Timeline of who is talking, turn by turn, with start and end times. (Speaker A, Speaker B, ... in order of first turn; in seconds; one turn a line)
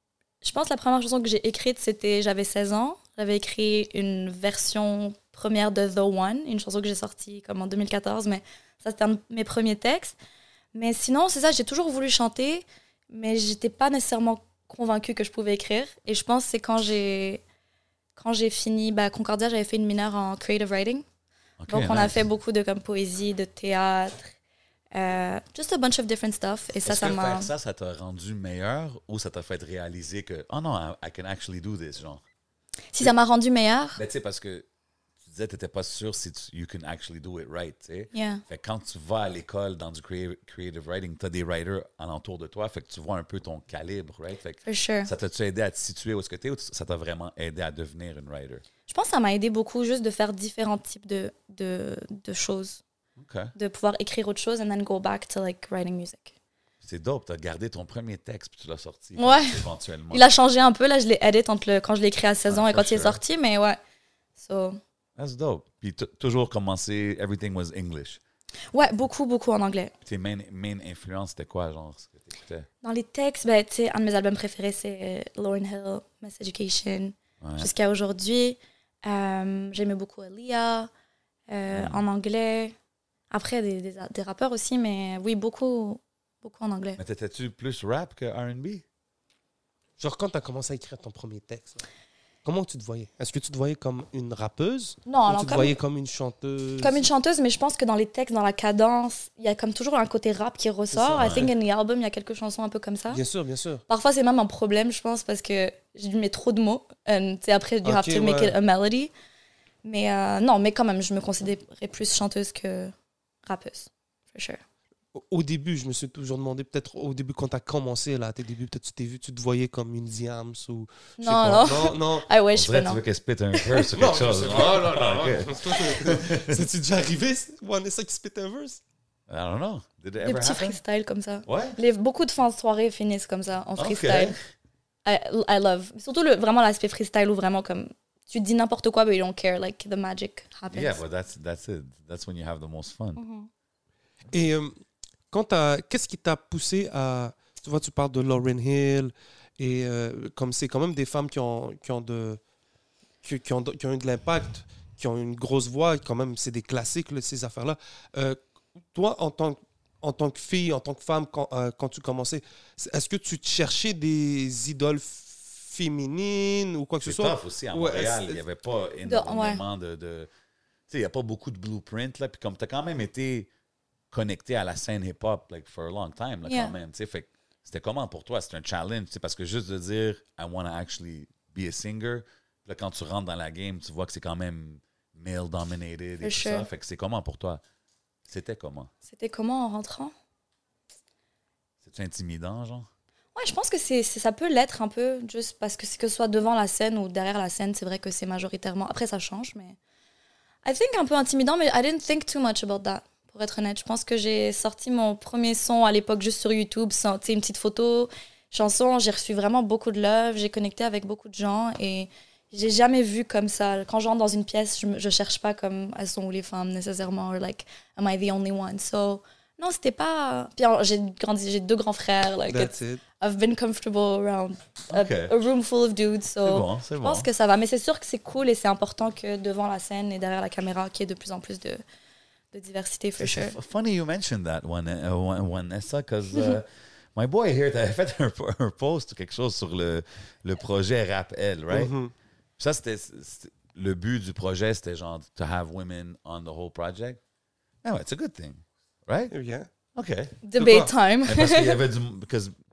Speaker A: 0.4-10.2
Speaker A: 10.7-17.4
Speaker A: 18.1-21.0
Speaker B: 21.6-22.2
Speaker A: 21.7-24.3
Speaker A: 24.9-27.5
Speaker B: 26.8-32.2
Speaker A: 32.9-34.0
Speaker B: 34.0-34.6
Speaker B: 35.2-48.6
Speaker A: 38.1-38.4
Speaker A: 44.6-45.1
Speaker A: 48.9-52.8
Speaker B: 53.2-53.5
Speaker A: 53.5-56.3
Speaker B: 56.8-60.2
Speaker A: 59.2-59.6
Speaker A: 60.1-63.8
Speaker B: 62.5-63.2
Speaker A: 64.4-64.8
Speaker B: 65.2-68.2
Speaker A: 68.7-69.9
Speaker B: 70.0-72.7
Speaker A: 72.8-80.9
Speaker B: 77.4-77.7
Speaker A: 81.5-82.7
Speaker B: 81.7-82.0
Speaker A: 83.3-87.0
Speaker B: 87.0-88.8
Speaker C: 90.0-91.8
Speaker C: 92.4-97.1
Speaker A: 95.1-95.7
Speaker A: 96.8-103.2
Speaker C: 100.9-101.5
Speaker B: 101.2-101.5
Speaker C: 103.1-103.8
Speaker A: 103.9-109.1
Speaker C: 107.8-108.5
Speaker A: 109.8-112.9
Speaker A: 113.5-114.6
Speaker C: 115.1-122.3
Speaker A: 121.2-123.0
Speaker B: 122.5-126.6
Speaker A: 123.5-123.9
Speaker C: 123.9-128.8
Speaker B: 129.3-130.8
Speaker A: 130.2-134.4
Speaker B: 131.4-131.8
Speaker B: 133.8-134.4
Speaker A: 135.0-141.0
Speaker B: 140.7-143.2
Speaker A: 143.2-143.5
Speaker C: 144.3-144.7
Speaker C: 145.3-152.4
Speaker C: 153.2-158.4
Speaker C: 158.9-168.4
Speaker B: 167.0-170.3
Speaker A: 169.1-169.6
Speaker B: 170.9-173.5
Speaker B: 174.1-187.6
Speaker A: 176.4-176.7
Speaker A: 186.2-186.7
Speaker B: 188.3-188.9
Speaker A: 189.1-190.1
Speaker B: 191.8-192.9
Speaker A: 193.3-199.8
Speaker A: 200.6-231.8
Speaker C: 222.5-223.0
Speaker B: 224.9-225.3
Speaker B: 226.4-227.3
Speaker A: 232.5-233.6
Speaker B: 233.2-241.9
Speaker C: 241.7-242.1
Speaker B: 242.6-247.2
Speaker B: 247.8-249.3
Speaker C: 249.3-249.7
Speaker B: 249.9-250.4
Speaker A: 250.4-251.8
Speaker C: 250.6-250.9
Speaker B: 251.2-252.6